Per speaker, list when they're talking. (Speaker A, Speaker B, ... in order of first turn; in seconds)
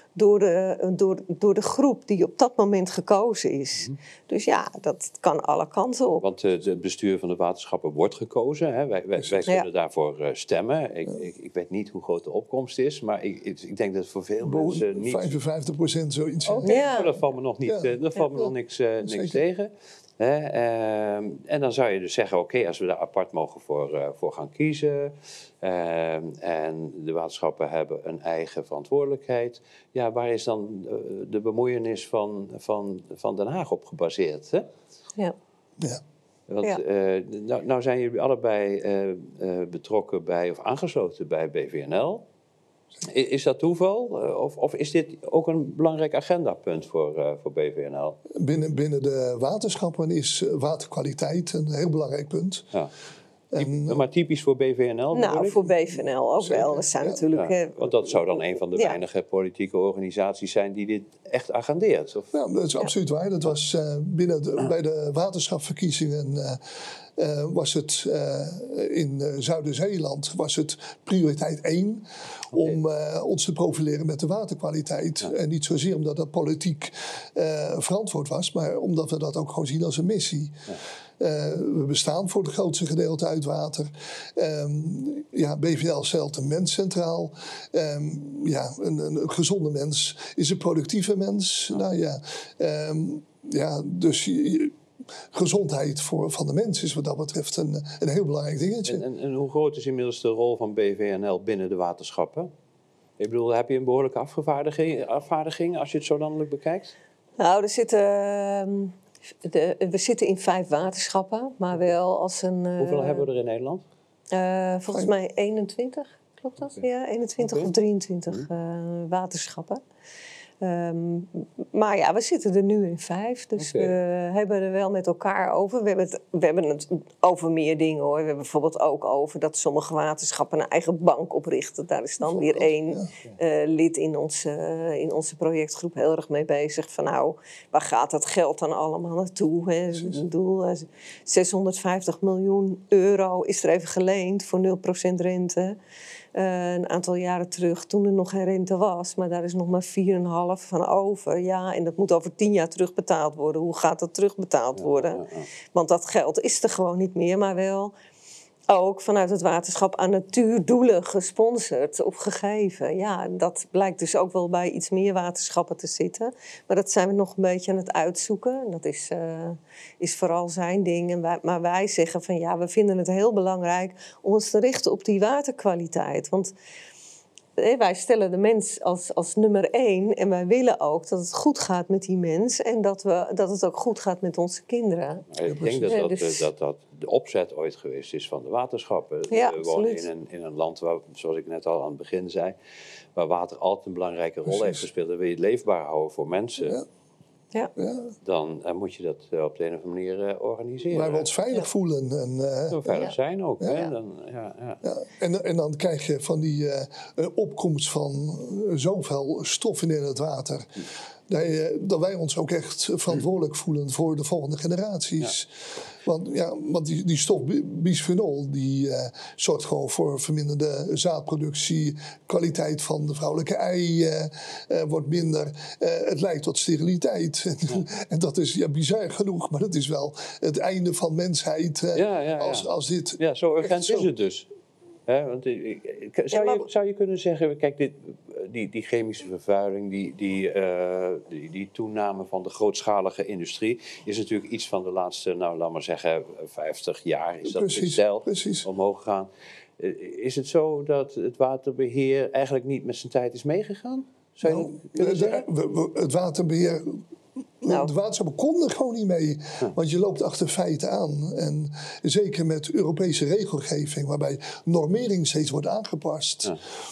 Speaker A: 0.2-6.2, 16.5-17.2, 55.1-59.0, 107.4-113.3, 114.3-119.8, 120.6-145.8, 146.3-157.9, 158.7-176.5, 177.6-185.3, 185.9-186.4, 189.3-190.1, 236.3-236.7, 257.7-257.9
Speaker B: 6.2-15.4, 16.6-34.7, 36.5-42.2, 43.1-48.2, 53.6-55.6, 57.3-62.3, 98.9-102.5, 103.2-107.0, 112.8-113.8, 117.4-117.7, 123.6-123.9, 154.8-155.5, 185.3-192.6, 193.2-196.8, 198.2-201.3, 202.7-204.8, 231.9-234.5, 235.1-255.4
Speaker C: 14.4-16.9, 17.6-17.9, 19.0-19.4, 48.3-52.7, 53.5-54.0, 56.4-57.2, 62.3-66.6, 67.2-94.8, 95.3-99.0, 132.2-133.1, 185.4-186.0, 194.5-194.8, 197.8-198.2, 200.9-203.9, 204.8-234.1, 247.4-248.7, 254.4-257.0, 257.6-266.6